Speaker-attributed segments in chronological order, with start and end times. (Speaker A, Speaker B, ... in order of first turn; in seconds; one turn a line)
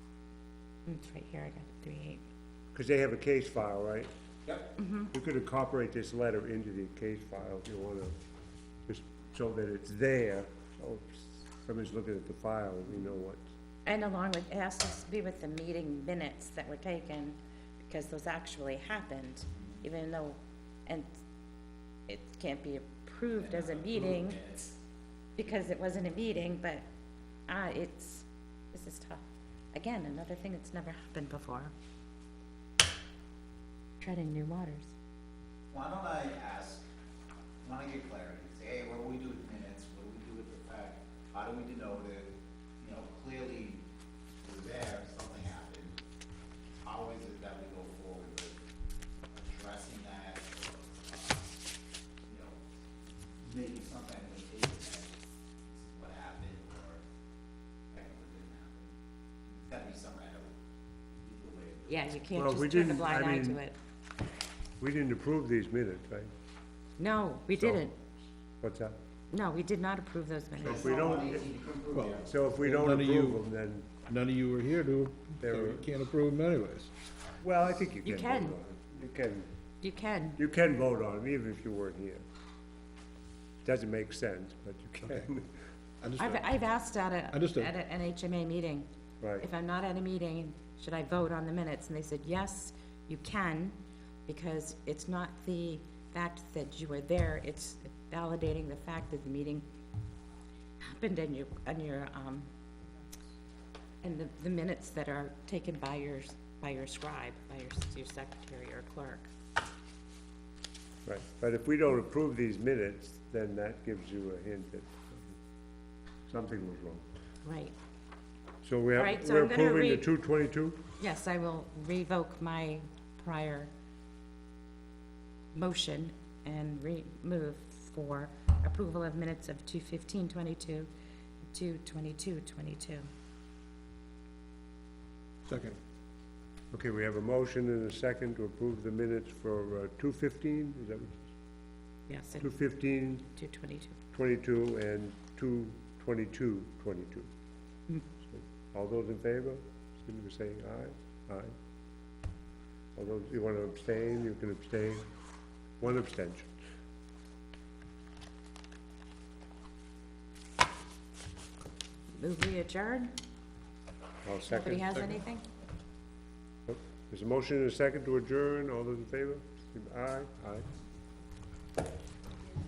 Speaker A: 0.8-2.2
Speaker B: 2.7-4.1
Speaker A: 4.8-5.1
Speaker B: 5.1-8.1
Speaker B: 8.8-13.5
Speaker A: 13.8-21.1
Speaker A: 22.1-24.4
Speaker C: 23.3-24.7
Speaker A: 25.4-26.8
Speaker A: 27.5-31.7
Speaker A: 34.0-34.9
Speaker C: 35.7-36.8
Speaker C: 37.6-43.8
Speaker C: 44.4-46.0
Speaker C: 46.8-48.6
Speaker C: 49.3-51.5
Speaker C: 52.2-52.6
Speaker C: 53.4-57.0
Speaker C: 57.9-58.9
Speaker C: 59.5-60.5
Speaker C: 61.1-62.1
Speaker A: 61.9-63.8
Speaker B: 62.3-63.6
Speaker B: 64.8-66.3
Speaker A: 67.0-67.9
Speaker B: 67.5-67.9
Speaker B: 68.6-69.0
Speaker A: 69.3-71.0
Speaker C: 70.6-72.3
Speaker B: 70.6-71.4
Speaker D: 71.9-73.4
Speaker B: 72.2-73.9
Speaker D: 74.0-76.9
Speaker B: 75.4-75.9
Speaker B: 77.4-79.5
Speaker A: 78.0-78.6
Speaker A: 79.8-80.4
Speaker B: 80.4-82.2
Speaker B: 83.6-85.5
Speaker D: 86.0-86.4
Speaker A: 86.2-88.9
Speaker D: 87.3-87.7
Speaker B: 89.2-89.5
Speaker A: 89.4-93.8
Speaker A: 94.3-99.7
Speaker A: 100.8-102.5
Speaker A: 104.0-109.3
Speaker B: 111.0-115.4
Speaker B: 116.3-117.0
Speaker A: 117.4-117.7
Speaker B: 118.6-120.8
Speaker A: 118.9-120.1
Speaker A: 121.0-123.7
Speaker A: 125.5-130.9
Speaker A: 131.5-133.1
Speaker D: 135.5-135.8
Speaker B: 136.7-141.3
Speaker A: 142.1-142.6
Speaker B: 142.4-143.3
Speaker A: 143.2-144.0
Speaker B: 144.1-147.3
Speaker B: 148.3-151.5
Speaker B: 152.9-155.1
Speaker B: 155.8-156.5
Speaker A: 162.1-163.1
Speaker B: 164.2-164.9
Speaker A: 164.5-165.5
Speaker B: 166.7-170.7